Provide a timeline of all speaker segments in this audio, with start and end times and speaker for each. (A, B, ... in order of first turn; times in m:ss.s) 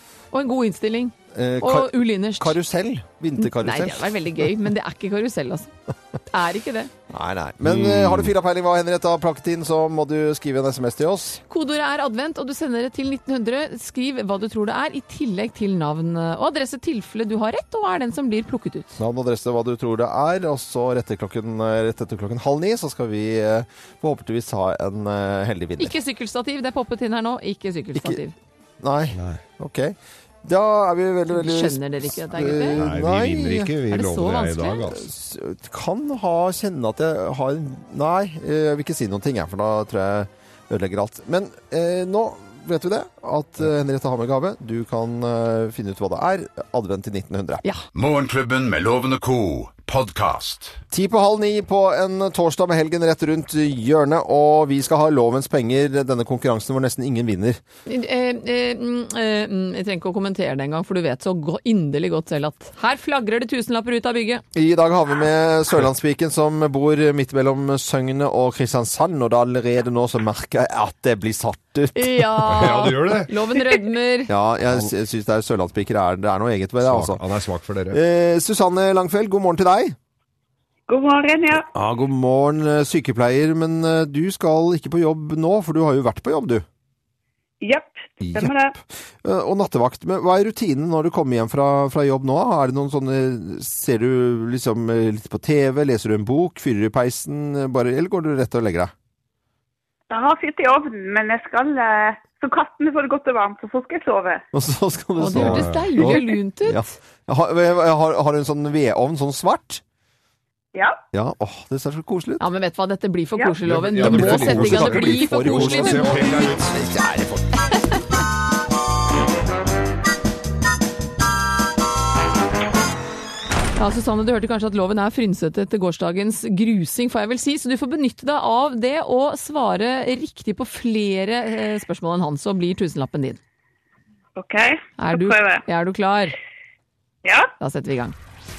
0:00.3-0:02.6 A
0:01.3-0:04.2 B
0:03.4-0:05.7 A
0:06.3-0:06.9 A
0:07.1-0:11.4 B
0:07.6-0:08.3 C
0:11.5-0:19.0 A
0:19.0-0:26.0 B
0:25.8-0:28.3 A
0:27.9-0:28.2 B
0:28.8-0:33.8 B
0:29.1-0:29.4 C
0:31.3-0:32.8 A
0:32.8-0:35.1 C
0:33.9-0:34.8 A
0:34.9-0:47.6 B
0:47.9-0:50.8 D
0:50.9-0:57.6 B
0:57.8-1:04.4 A
1:04.5-1:12.9 B
1:11.9-1:14.3 A
1:12.5-1:13.3 C
1:14.3-1:17.2 B
1:16.8-1:18.0 C
1:17.9-1:20.0 B
1:20.9-1:21.7 E
1:21.7-1:26.6 B
1:27.6-1:28.8 E
1:28.2-1:38.9 B
1:40.1-1:44.4 E
1:44.5-1:49.8 B
1:45.2-1:46.9 A
1:45.3-1:46.1 C
1:50.7-1:51.0 E
1:51.1-1:52.4 B
1:52.4-1:56.6 A
1:53.6-1:56.7 C
1:54.0-1:57.6 B
2:03.8-2:13.4 A
2:14.4-2:15.6 E
2:15.0-2:16.3 A
2:17.2-2:17.5 E
2:17.6-2:18.2 A